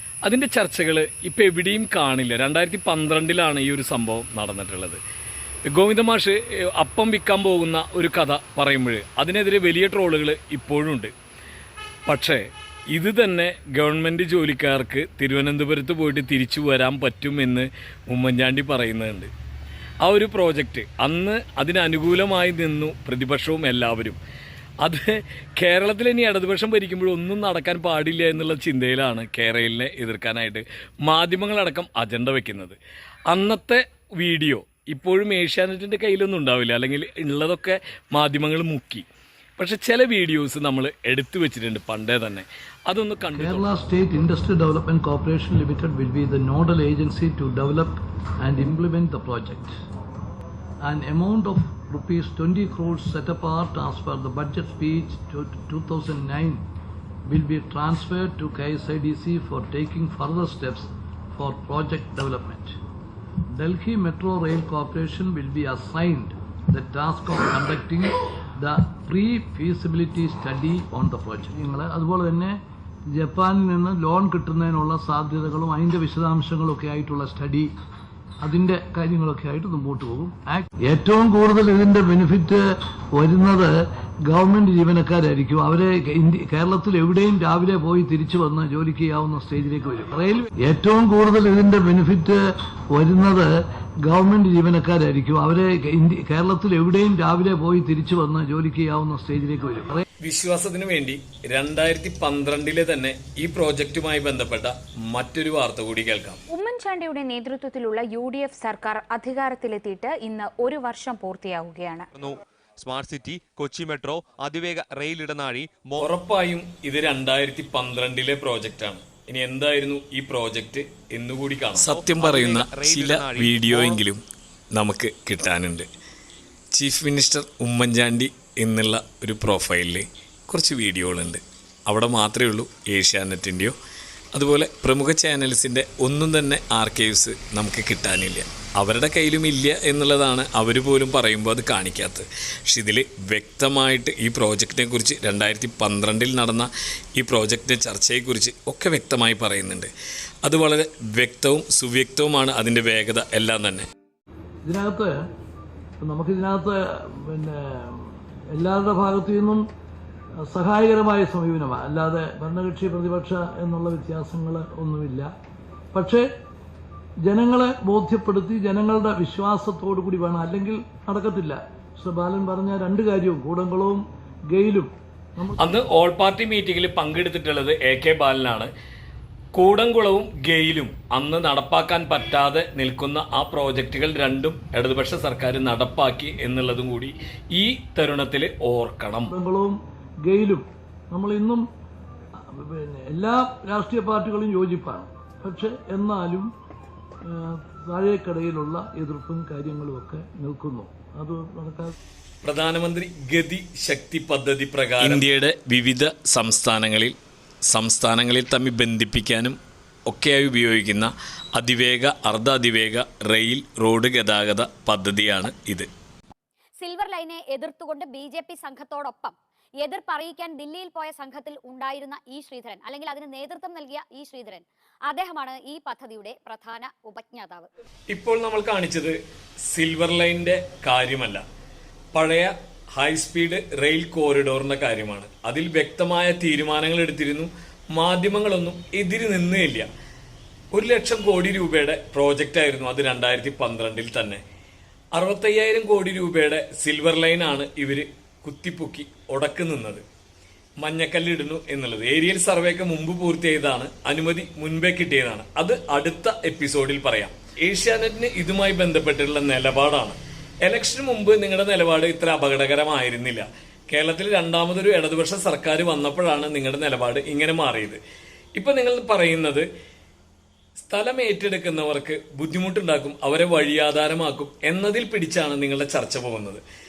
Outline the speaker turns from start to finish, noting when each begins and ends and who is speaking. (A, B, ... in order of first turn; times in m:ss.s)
0:00.2-0:05.0 A
0:05.7-0:11.1 A
0:12.1-0:19.3 A
0:20.0-0:24.2 A
0:24.8-0:39.0 A
0:39.6-0:43.7 A
0:43.3-0:49.7 B
0:50.8-0:56.6 B
0:57.2-1:02.8 B
1:03.5-1:12.6 B
1:13.1-1:17.7 B
1:18.4-1:40.0 B
1:40.2-1:46.4 A
1:46.5-1:52.1 C
1:52.1-1:56.1 D
1:56.0-2:04.2 A
2:01.8-2:04.0 D
2:04.7-2:05.9 A
2:06.7-2:13.8 A
2:14.3-2:29.9 A
2:30.4-2:33.9 A
2:34.6-2:35.2 B
2:36.0-2:39.6 B
2:40.4-2:45.3 B
2:45.9-2:46.3 B
2:47.2-2:55.7 B
2:55.6-2:58.7 A
2:59.5-3:09.3 A
3:09.3-3:11.6 B
3:12.4-3:16.5 B
3:17.2-3:21.9 B
3:22.4-3:27.1 A
3:27.7-3:29.6 A
3:30.1-3:35.9 A
3:36.8-3:47.7 E
3:48.1-3:49.2 A
3:49.7-3:51.4 A
3:52.1-3:59.9 A
4:00.7-4:04.4 A
4:05.1-4:10.0 A
4:10.8-4:28.0 A
4:28.6-4:29.7 A
4:30.8-4:36.6 A